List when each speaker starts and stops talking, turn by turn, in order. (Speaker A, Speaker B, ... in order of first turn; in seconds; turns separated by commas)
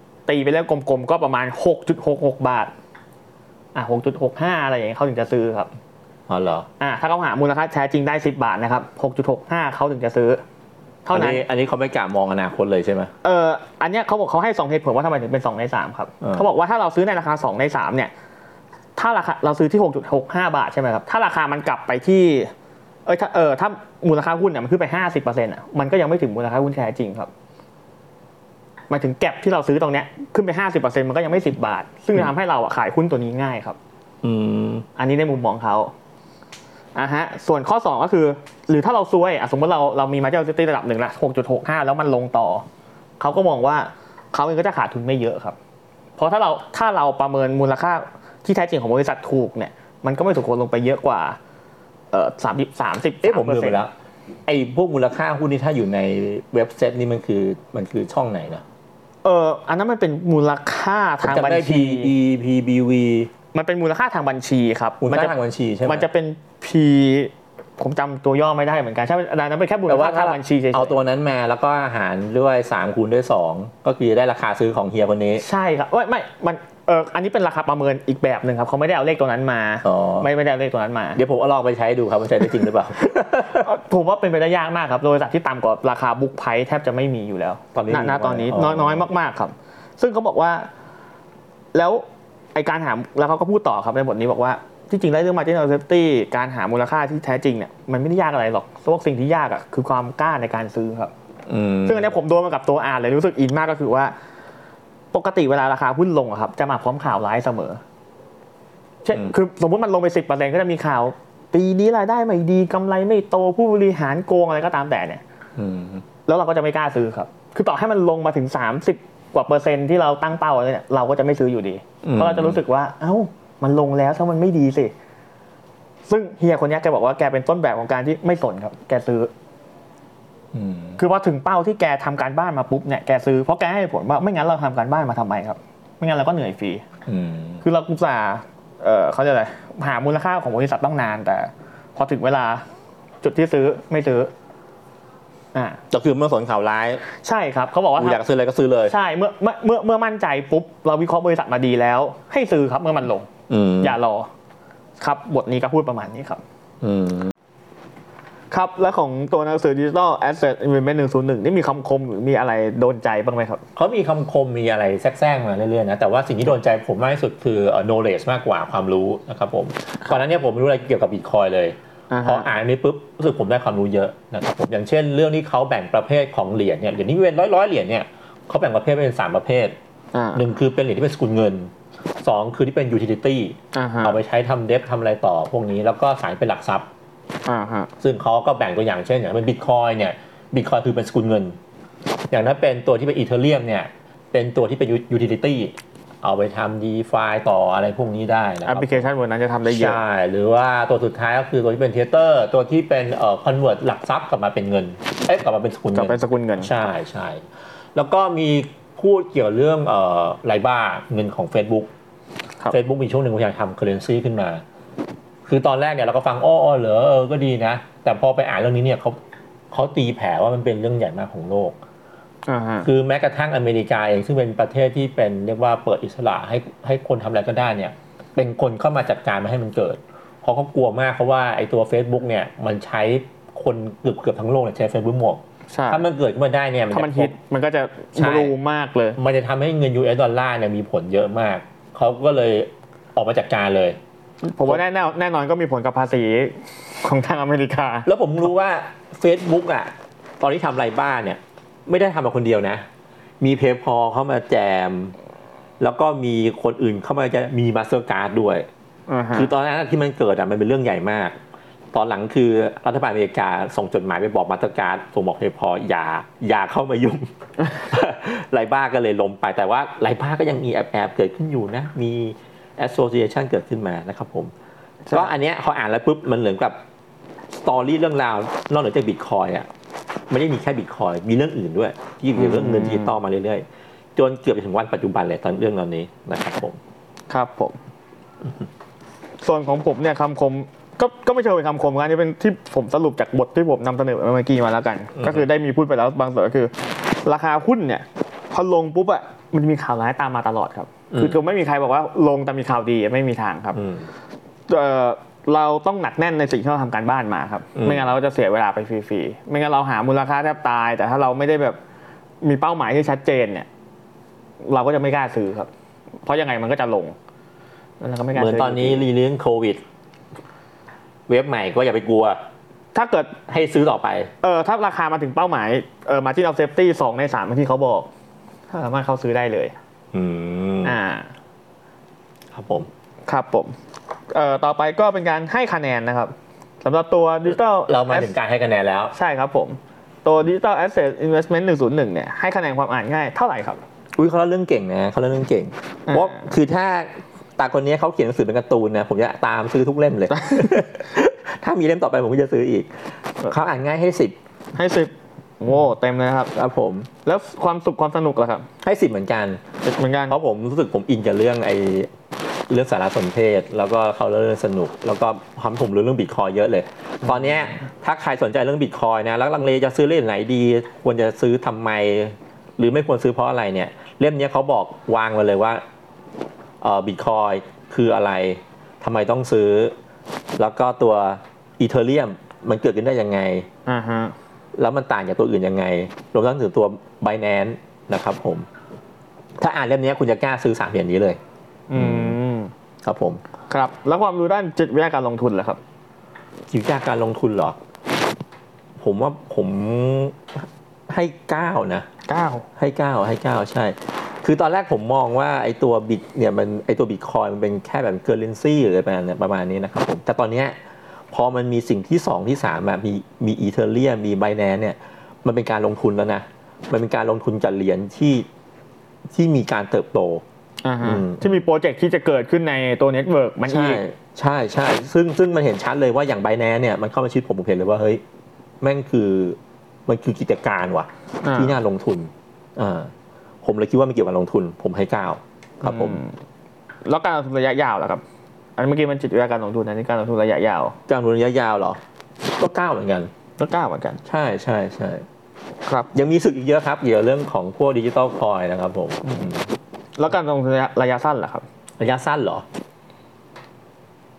Speaker A: 0.3-2.7, Speaker A: 3.7-5.7, Speaker B: 6.3-6.7, Speaker A: 6.8-10.4, Speaker A: 11.0-11.4, Speaker B: 11.1-13.1, Speaker A: 13.2-18.1, Speaker B: 16.2-16.5, Speaker A: 18.9-22.5, Speaker A: 23.1-27.3, Speaker A: 28.9-33.8, Speaker B: 34.2-34.9, Speaker A: 35.0-35.9, Speaker A: 36.9-42.6, Speaker A: 43.2-45.5, Speaker A: 46.2-51.4, Speaker A: 52.1-53.8, Speaker B: 53.2-53.9, Speaker B: 54.5-58.6, Speaker A: 59.2-62.1, Speaker B: 61.2-63.3, Speaker A: 63.5-71.0, Speaker B: 65.0-66.1, Speaker B: 69.9-75.4, Speaker A: 75.4-81.2, Speaker B: 79.8-80.3, Speaker B: 81.1-83.7, Speaker A: 83.4-90.7, Speaker B: 87.7-89.0, Speaker A: 91.7-101.1, Speaker B: 101.5-102.1, Speaker A: 101.8-104.1, Speaker A: 105.1-107.8, Speaker A: 109.0-115.2, Speaker B: 115.6-116.0, Speaker A: 116.3-124.9, Speaker B: 122.0-122.6, Speaker A: 126.1-129.3, Speaker B: 130.5-131.0, Speaker A: 131.0-136.8, Speaker B: 137.1-137.6, Speaker A: 137.6-142.6, Speaker A: 143.2-144.3, Speaker A: 145.5-145.8, Speaker B: 145.9-147.0, Speaker A: 147.1-148.2, Speaker B: 148.0-148.9, Speaker A: 148.9-153.3, Speaker B: 153.5-154.0, Speaker A: 153.8-154.3, Speaker A: 155.0-156.4, Speaker B: 156.8-157.3, Speaker A: 158.5-163.6, Speaker B: 163.8-179.8, Speaker A: 172.1-172.5, Speaker A: 180.1-180.4, Speaker B: 180.3-186.8, Speaker A: 183.7-184.2, Speaker A: 187.4-187.9, Speaker B: 188.0-191.6, Speaker B: 192.3-199.1, Speaker A: 198.7-200.0, Speaker B: 199.7-207.4, Speaker A: 205.9-206.7, Speaker B: 207.9-211.9, Speaker B: 212.7-214.6, Speaker B: 215.4-219.2, Speaker B: 219.7-221.8, Speaker A: 222.5-222.9, Speaker B: 222.8-237.3, Speaker A: 235.7-236.0, Speaker A: 236.9-239.2, Speaker B: 238.2-238.5, Speaker B: 239.2-244.0, Speaker A: 244.4-248.1, Speaker B: 248.0-252.8, Speaker B: 253.4-255.1, Speaker B: 255.8-258.7, Speaker A: 259.1-259.5, Speaker B: 259.3-261.4, Speaker B: 261.9-274.5, Speaker B: 275.1-276.8, Speaker B: 277.5-279.7, Speaker B: 280.3-283.6, Speaker A: 282.3-283.1, Speaker B: 284.1-286.8, Speaker A: 287.3-287.8, Speaker A: 289.4-303.8, Speaker B: 295.2-295.4, Speaker B: 301.1-301.4, Speaker B: 303.7-304.1, Speaker A: 304.7-311.8, Speaker B: 307.8-308.1, Speaker A: 312.4-313.7, Speaker A: 314.6-315.7, Speaker A: 316.2-317.1, Speaker A: 318.0-319.0, Speaker B: 318.3-319.8, Speaker B: 321.3-322.4, Speaker A: 322.9-323.4, Speaker B: 323.5-324.3, Speaker A: 324.4-328.1, Speaker A: 328.7-329.7, Speaker B: 330.1-331.0, Speaker A: 330.8-331.3, Speaker B: 332.5-332.9, Speaker A: 333.3-333.7, Speaker A: 334.3-338.3, Speaker B: 337.9-339.1, Speaker A: 339.1-343.8, Speaker B: 344.1-352.9, Speaker A: 346.1-346.4, Speaker A: 350.3-350.7, Speaker B: 353.4-354.4, Speaker A: 354.7-356.5, Speaker B: 356.5-357.1, Speaker A: 357.2-358.6, Speaker B: 358.8-362.1, Speaker A: 360.0-360.3, Speaker B: 362.7-375.8, Speaker B: 376.8-379.9, Speaker B: 380.6-383.7, Speaker A: 383.9-384.3, Speaker B: 384.8-388.7, Speaker B: 389.6-391.4, Speaker A: 391.9-392.7, Speaker B: 391.9-392.4, Speaker B: 393.0-393.4, Speaker A: 393.7-395.8, Speaker B: 396.7-397.8, Speaker B: 399.0-402.1, Speaker A: 402.3-402.6, Speaker B: 402.8-410.8, Speaker B: 411.3-418.4, Speaker B: 419.3-420.4, Speaker A: 420.8-424.0, Speaker B: 421.0-421.6, Speaker B: 423.7-428.2, Speaker B: 428.8-433.1, Speaker A: 431.4-431.8, Speaker B: 433.6-436.2, Speaker A: 435.8-436.3, Speaker A: 437.0-438.2, Speaker A: 438.8-440.9, Speaker B: 441.1-442.0, Speaker B: 442.6-443.3, Speaker A: 443.6-444.2, Speaker B: 444.2-445.2, Speaker B: 446.1-449.6, Speaker A: 449.2-449.6, Speaker A: 450.2-451.6, Speaker B: 452.0-452.6